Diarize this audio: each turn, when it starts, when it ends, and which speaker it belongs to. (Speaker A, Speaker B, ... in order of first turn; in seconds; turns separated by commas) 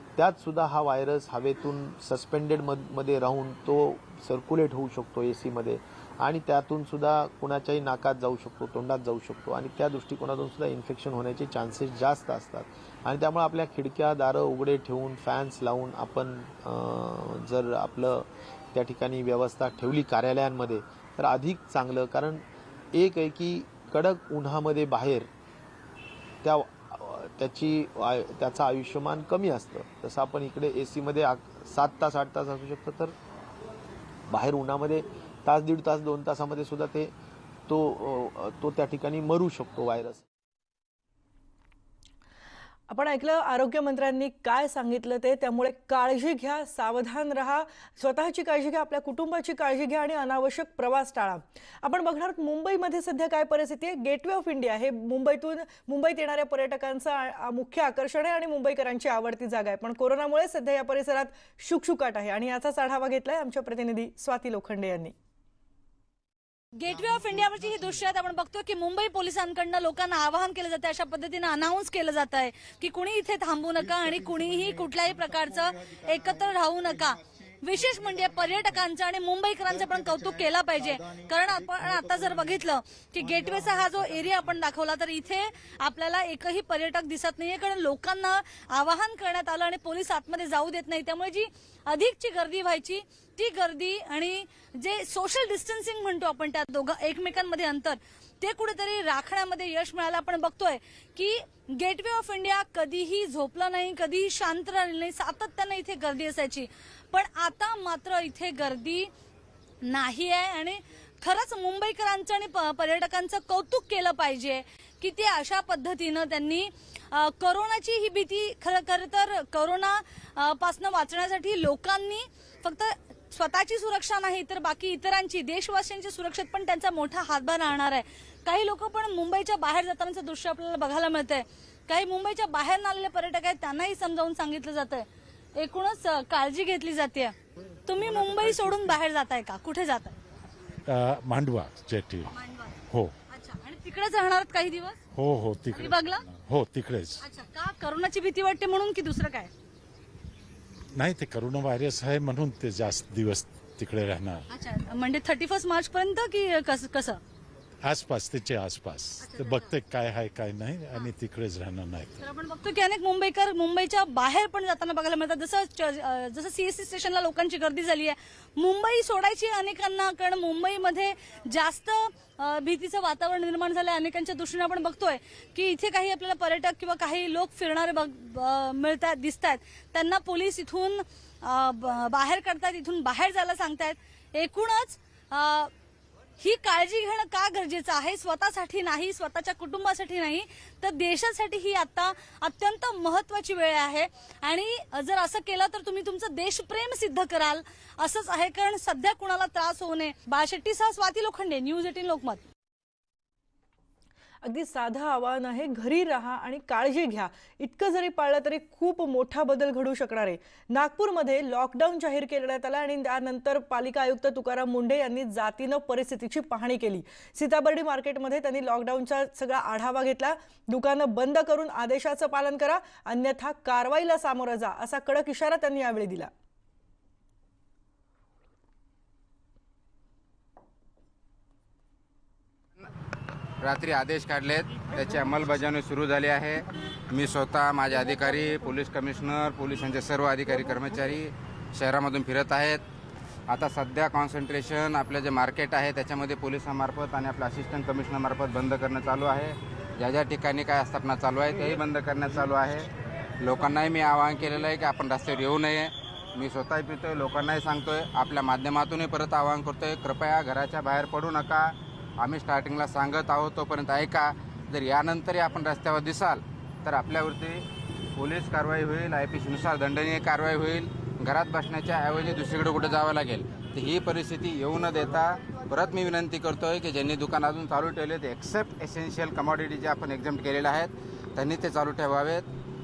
Speaker A: 0.1-25.3, Speaker A: 26.4-33.1, Speaker A: 34.3-37.1, Speaker A: 37.7-40.2, Speaker B: 42.9-65.1, Speaker C: 66.8-109.1, Speaker C: 109.8-137.3, Speaker C: 137.8-140.2, Speaker D: 140.9-142.3, Speaker C: 142.3-145.0, Speaker D: 145.1-147.2, Speaker C: 145.7-146.2, Speaker C: 147.2-149.5, Speaker D: 150.9-154.4, Speaker C: 154.5-157.2, Speaker D: 157.8-162.2, Speaker C: 159.2-159.7, Speaker C: 162.2-185.7, Speaker C: 186.4-202.4, Speaker B: 204.4-226.3, Speaker E: 233.6-242.8, Speaker E: 243.5-252.9, Speaker E: 253.4-267.6, Speaker E: 268.1-282.5